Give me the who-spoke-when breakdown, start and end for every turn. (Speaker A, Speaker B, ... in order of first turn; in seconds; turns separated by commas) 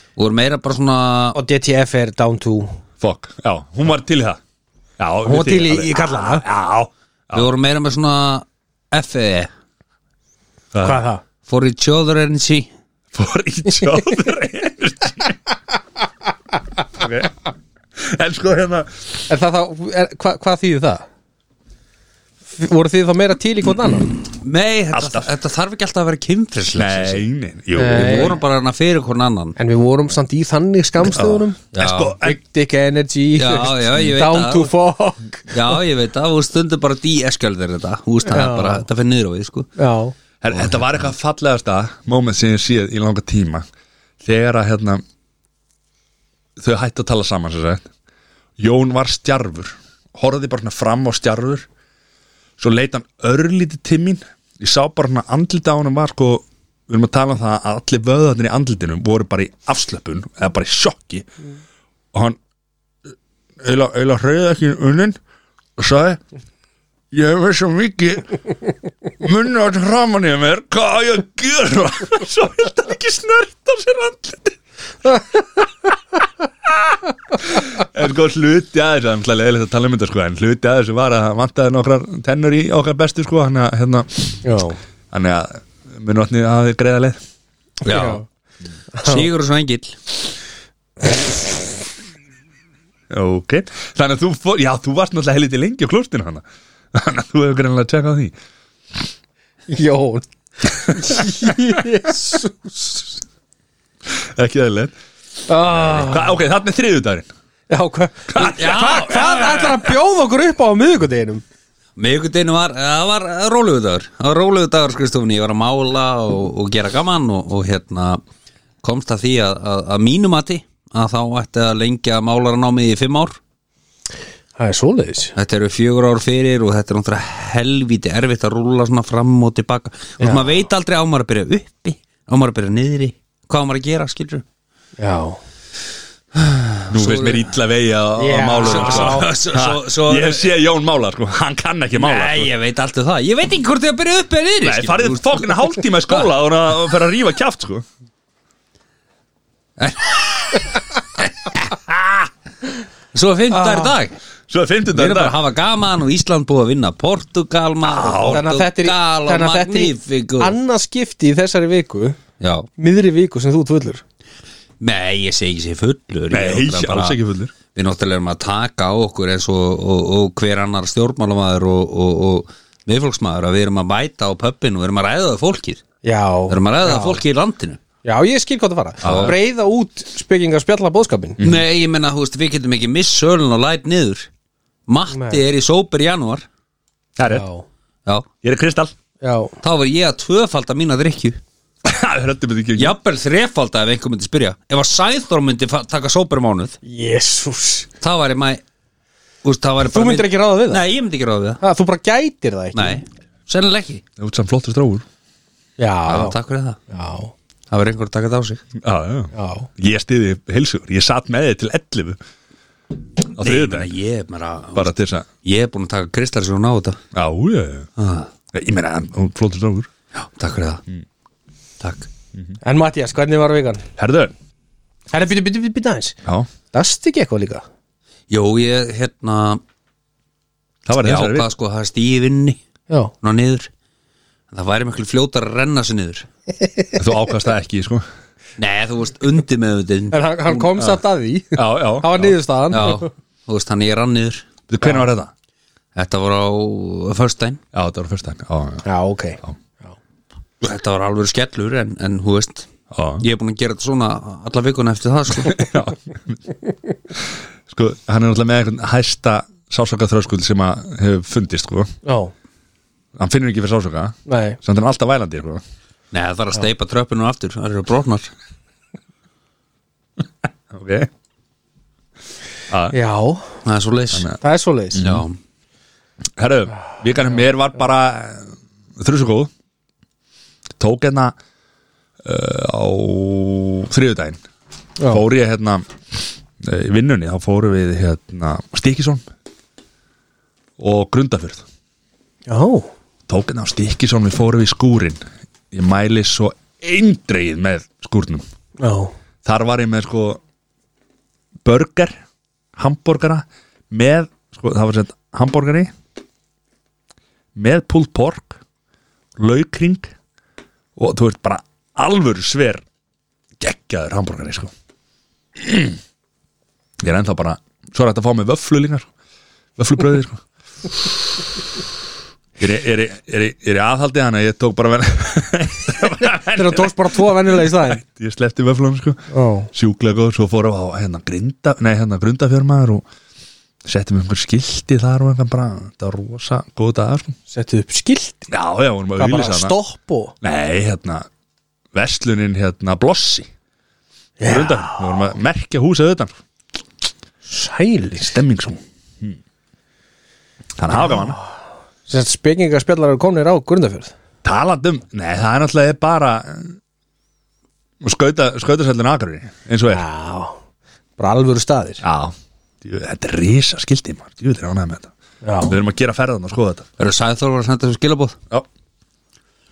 Speaker A: 0.2-1.4, Speaker B: 1.4-2.7, Speaker C: 3.0-4.4, Speaker C: 5.0-7.5, Speaker B: 5.2-6.5, Speaker A: 7.3-9.5, Speaker C: 10.7-11.0, Speaker B: 10.8-11.2, Speaker A: 11.5-12.7, Speaker C: 13.1-15.4, Speaker C: 16.9-17.3, Speaker C: 18.0-19.2, Speaker B: 19.3-21.1, Speaker B: 22.5-24.2, Speaker A: 24.4-27.2, Speaker C: 24.9-25.3, Speaker C: 26.8-28.4, Speaker B: 27.8-28.4, Speaker A: 27.8-29.6, Speaker B: 29.6-31.6, Speaker C: 31.0-32.4, Speaker A: 31.7-32.2, Speaker B: 32.2-35.8, Speaker A: 33.4-34.7, Speaker A: 35.5-39.7, Speaker B: 38.3-38.9, Speaker B: 39.8-40.1, Speaker C: 40.4-43.6, Speaker A: 40.5-40.8, Speaker C: 44.2-45.0, Speaker C: 46.6-47.9, Speaker C: 48.6-51.7, Speaker C: 52.6-61.3, Speaker C: 62.1-62.4, Speaker C: 63.6-65.2, Speaker C: 65.8-66.2, Speaker C: 67.1-68.4, Speaker C: 69.2-74.6, Speaker C: 75.1-75.6, Speaker C: 76.6-84.4, Speaker B: 84.4-84.8, Speaker C: 85.1-87.2, Speaker B: 87.8-88.2, Speaker A: 87.8-88.2, Speaker B: 88.9-89.3, Speaker A: 89.0-90.0, Speaker C: 93.1-98.3, Speaker B: 99.7-103.1, Speaker C: 100.9-101.8, Speaker C: 104.1-105.0, Speaker B: 105.5-106.4, Speaker C: 105.8-107.3, Speaker B: 107.7-111.4, Speaker C: 108.3-109.2, Speaker A: 108.4-109.8, Speaker A: 112.0-118.2, Speaker A: 118.8-123.4, Speaker B: 124.6-125.3, Speaker A: 125.4-134.4, Speaker B: 130.2-130.5, Speaker B: 135.0-135.4, Speaker A: 136.3-137.5, Speaker C: 136.9-142.5, Speaker B: 138.2-139.3, Speaker A: 138.6-140.5, Speaker A: 141.9-146.3, Speaker C: 144.6-147.8, Speaker A: 149.8-152.1, Speaker A: 153.1-154.2, Speaker B: 153.5-153.9, Speaker C: 154.5-155.4, Speaker A: 154.9-160.6, Speaker C: 157.8-158.4, Speaker B: 158.3-162.2, Speaker A: 162.4-162.7, Speaker B: 162.8-164.0, Speaker A: 164.8-167.2, Speaker C: 166.3-167.5, Speaker A: 167.7-175.8, Speaker B: 176.0-177.2, Speaker A: 176.5-177.8, Speaker B: 178.0-181.4, Speaker C: 179.0-179.3, Speaker A: 179.0-179.3, Speaker A: 181.4-184.3, Speaker A: 184.9-186.5, Speaker B: 185.1-185.4, Speaker C: 187.2-187.4, Speaker B: 187.3-187.7, Speaker C: 188.4-188.9, Speaker B: 189.2-189.6, Speaker A: 189.6-191.4, Speaker C: 191.8-193.0, Speaker A: 192.8-196.8, Speaker B: 196.8-197.9, Speaker A: 198.0-198.6, Speaker A: 199.4-201.6, Speaker B: 199.8-200.9, Speaker B: 201.6-203.0, Speaker A: 202.7-204.0, Speaker C: 204.2-205.1, Speaker B: 205.8-206.4, Speaker A: 206.1-206.8, Speaker B: 206.9-207.3, Speaker A: 207.7-208.6, Speaker C: 208.8-212.2, Speaker B: 209.3-209.7, Speaker C: 213.3-213.9, Speaker A: 213.4-214.9, Speaker C: 214.8-215.3, Speaker A: 215.4-217.0, Speaker C: 217.1-217.9, Speaker A: 218.0-218.3, Speaker C: 218.5-219.9, Speaker A: 220.2-220.8, Speaker A: 221.8-222.1, Speaker B: 222.6-223.8, Speaker C: 224.0-224.3, Speaker B: 225.1-226.2, Speaker B: 226.7-227.6, Speaker A: 228.3-229.6, Speaker C: 230.9-231.5, Speaker A: 231.0-232.6, Speaker A: 233.2-233.7, Speaker A: 234.5-236.3, Speaker C: 237.0-238.1, Speaker A: 238.6-240.9, Speaker B: 240.1-243.1, Speaker C: 241.6-242.4, Speaker A: 242.7-244.5, Speaker C: 244.7-245.3, Speaker A: 245.9-247.6, Speaker C: 247.7-248.8, Speaker B: 248.8-249.4, Speaker A: 250.6-252.7, Speaker C: 252.9-253.2, Speaker A: 253.2-255.7, Speaker C: 255.4-256.4, Speaker C: 257.1-261.9, Speaker B: 262.1-262.3, Speaker C: 263.2-265.6, Speaker B: 264.3-264.6, Speaker A: 266.1-268.3, Speaker C: 270.7-271.1, Speaker C: 272.7-273.0, Speaker B: 272.9-273.5, Speaker A: 273.6-274.3, Speaker C: 274.1-274.4, Speaker B: 274.4-275.0, Speaker C: 274.9-275.2, Speaker A: 275.0-275.4, Speaker C: 276.4-279.5, Speaker C: 280.8-281.4, Speaker C: 282.2-284.4, Speaker C: 285.1-289.2, Speaker C: 290.8-291.6, Speaker B: 292.5-292.9, Speaker C: 293.3-298.4, Speaker B: 298.8-299.1, Speaker C: 299.4-300.4, Speaker C: 301.6-302.2, Speaker C: 302.8-305.9, Speaker C: 307.6-308.6, Speaker C: 309.4-310.1, Speaker C: 311.0-312.8, Speaker C: 313.6-314.7, Speaker C: 315.6-316.0, Speaker C: 317.0-319.1, Speaker C: 319.8-320.4, Speaker C: 322.6-333.0, Speaker B: 326.5-328.0, Speaker B: 329.3-329.7, Speaker C: 333.9-337.4, Speaker B: 337.5-338.5, Speaker C: 338.5-339.8, Speaker B: 339.2-340.3, Speaker C: 340.4-341.3, Speaker C: 341.9-343.5, Speaker B: 344.4-345.3, Speaker C: 344.4-346.4, Speaker B: 347.5-348.4, Speaker C: 348.2-349.4, Speaker C: 350.8-351.4, Speaker B: 351.0-351.4, Speaker B: 352.1-354.1, Speaker C: 354.4-356.8, Speaker C: 358.0-360.0, Speaker B: 359.9-360.6, Speaker B: 361.2-362.0, Speaker C: 362.0-365.1, Speaker B: 365.4-365.8, Speaker C: 365.6-366.9, Speaker A: 367.0-368.4